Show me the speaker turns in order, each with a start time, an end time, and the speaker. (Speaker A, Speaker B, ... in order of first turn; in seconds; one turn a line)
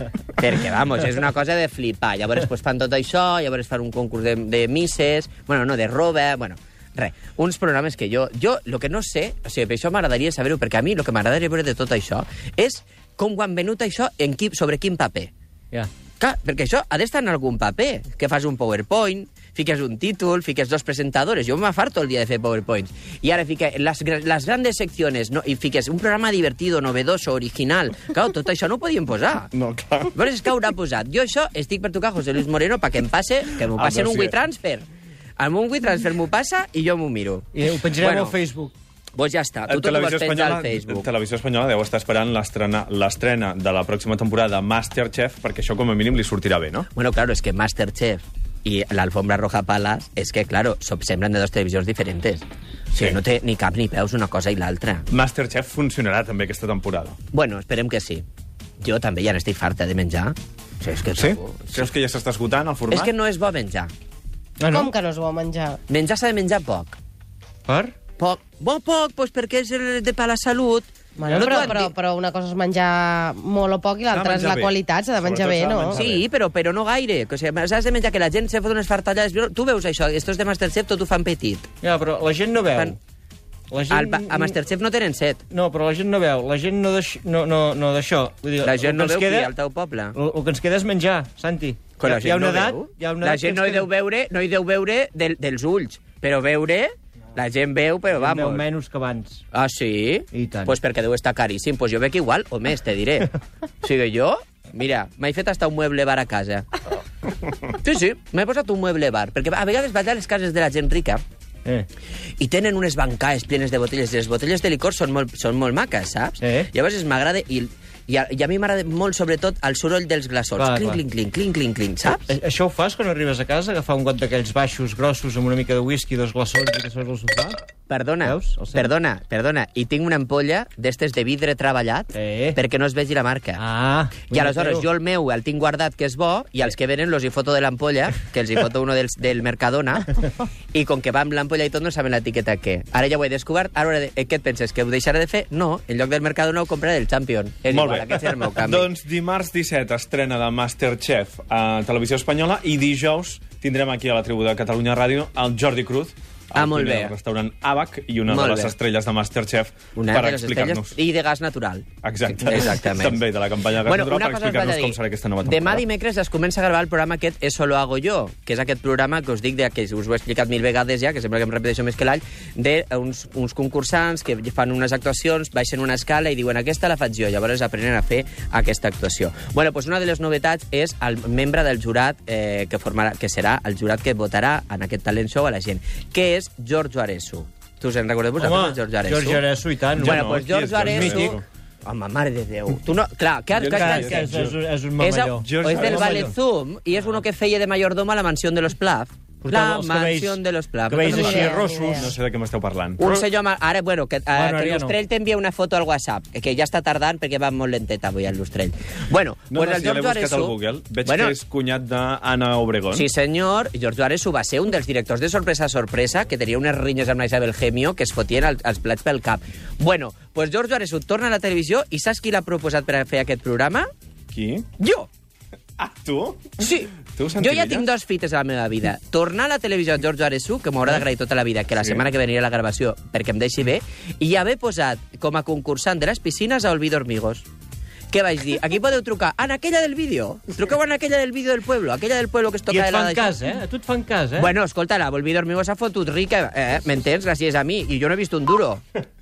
Speaker A: 0.4-15.3
Speaker A: 16.2-29.5
Speaker B: 29.5-30.2
Speaker A: 30.1-34.9
Speaker B: 33.8-34.4
Speaker A: 35.4-38.4
Speaker C: 37.5-38.7
Speaker A: 39.1-41.1
Speaker B: 39.7-46.9
Speaker A: 47.0-55.0
Speaker B: 52.9-53.2
Speaker B: 55.1-57.2
Speaker A: 57.3-58.2
Speaker A: 58.8-61.9
Speaker B: 61.1-63.1
Speaker A: 62.9-63.9
Speaker C: 64.6-64.9
Speaker D: 64.7-65.8
Speaker A: 65.9-67.0
Speaker C: 67.7-67.9
Speaker A: 68.2-71.9
Speaker D: 71.2-76.0
Speaker C: 71.3-71.7
Speaker B: 74.1-76.2
Speaker A: 75.9-81.7
Speaker C: 81.8-83.0
Speaker C: 83.7-84.5
Speaker A: 83.9-85.4
Speaker C: 85.5-89.5
Speaker A: 88.6-90.1
Speaker C: 90.1-93.9
Speaker A: 92.0-98.6
Speaker C: 98.1-99.4
Speaker A: 99.5-106.7
Speaker C: 100.3-100.7
Speaker A: 107.6-111.2
Speaker A: 112.4-122.3
Speaker C: 116.4-116.7
Speaker C: 120.6-121.0
Speaker C: 122.3-127.6
Speaker A: 127.9-133.6
Speaker C: 128.2-128.9
Speaker C: 132.1-132.6
Speaker C: 133.6-134.8
Speaker A: 134.3-140.1
Speaker A: 140.7-148.9
Speaker B: 147.7-161.0
Speaker A: 156.5-157.1
Speaker A: 158.3-158.7
Speaker A: 159.9-163.2
Speaker B: 162.0-165.8
Speaker A: 163.8-189.4
Speaker C: 188.4-190.3
Speaker B: 190.0-191.4
Speaker A: 190.0-194.3
Speaker C: 190.8-191.3
Speaker B: 193.5-194.6
Speaker C: 193.6-196.3
Speaker A: 195.0-201.7
Speaker B: 195.3-196.3
Speaker C: 199.4-202.2
Speaker D: 201.0-202.0
Speaker B: 201.9-203.2
Speaker A: 203.0-211.3
Speaker C: 204.3-204.9
Speaker B: 209.5-213.1
Speaker A: 212.9-223.9
Speaker B: 224.3-224.7
Speaker A: 224.8-225.1
Speaker B: 225.8-227.9
Speaker A: 226.6-237.5
Speaker A: 238.1-243.3
Speaker C: 242.7-244.5
Speaker A: 244.4-248.8